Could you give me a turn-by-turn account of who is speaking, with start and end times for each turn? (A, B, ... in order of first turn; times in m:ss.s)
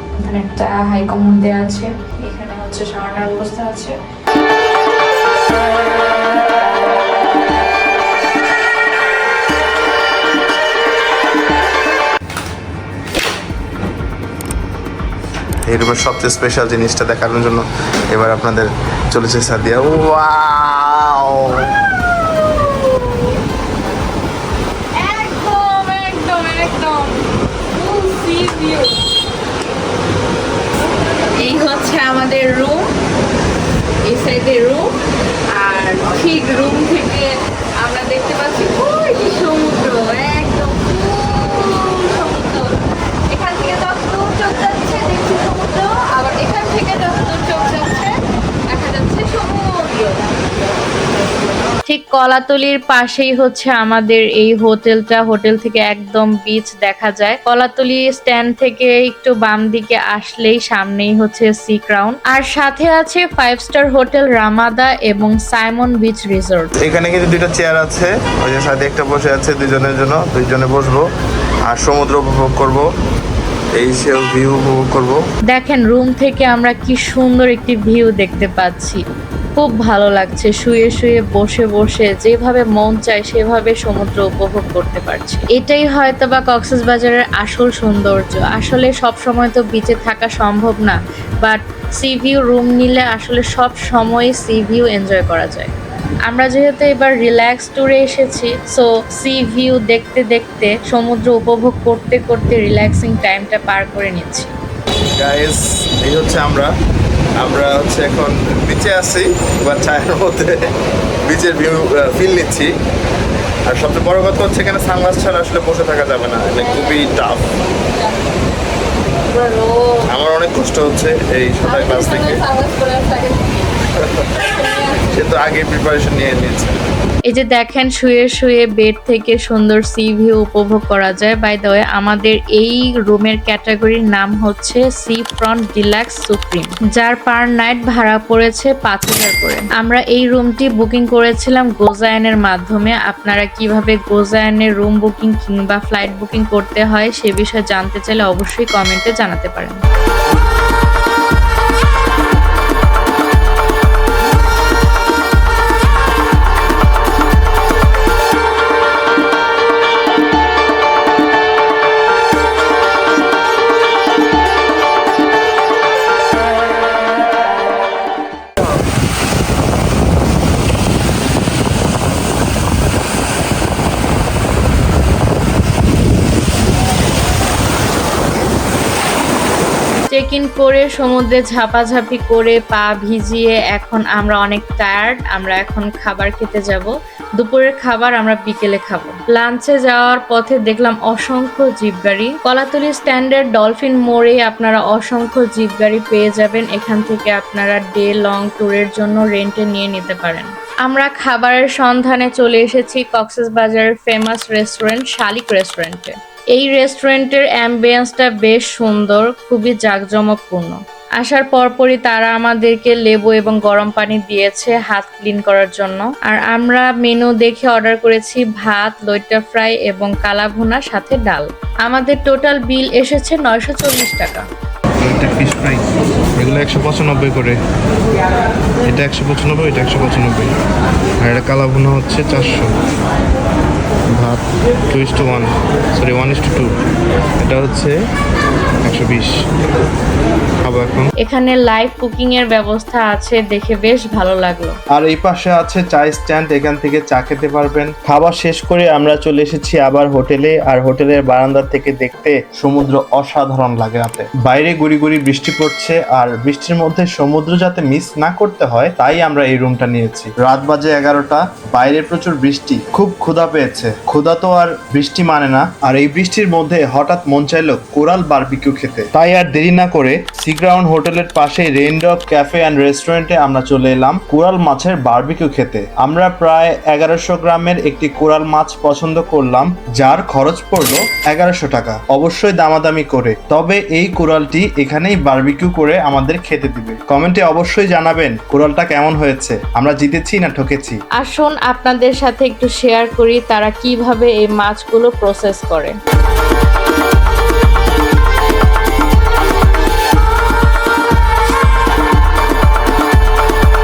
0:00.3-0:03.9 A
0:15.7-0:21.6 B
0:25.0-0:27.1 A
0:25.1-0:27.1 C
0:27.7-0:28.8 A
0:28.0-0:29.0 C
0:31.4-0:32.8 C
0:31.9-0:32.4 A
0:34.1-0:35.0 C
0:35.6-0:42.8 C
0:43.3-0:48.2 C
0:48.7-0:50.3 C
0:51.8-1:06.7 A
1:06.8-1:11.0 B
1:11.6-1:12.8 B
1:13.7-1:15.2 B
1:15.5-1:19.0 A
1:19.6-1:35.7 A
1:36.3-1:44.5 A
1:45.2-1:46.7 B
1:47.4-1:50.7 B
1:51.2-1:52.7 B
1:53.7-1:57.5 B
1:56.6-1:57.1 C
1:59.3-2:00.0 C
2:00.1-2:02.4 B
2:01.6-2:03.7 C
2:04.5-2:05.1 C
2:05.0-2:06.8 B
2:07.3-2:29.8 A
3:00.1-3:44.4 A
3:45.0-3:47.6 B
3:48.8-3:50.5 B
3:51.2-3:52.7 B
3:54.2-3:56.7 B
3:57.4-3:57.9 B
3:58.8-3:59.3 B
4:00.6-4:01.1 B
4:01.2-4:04.8 A
4:04.9-4:51.0 B
4:51.2-4:55.9 A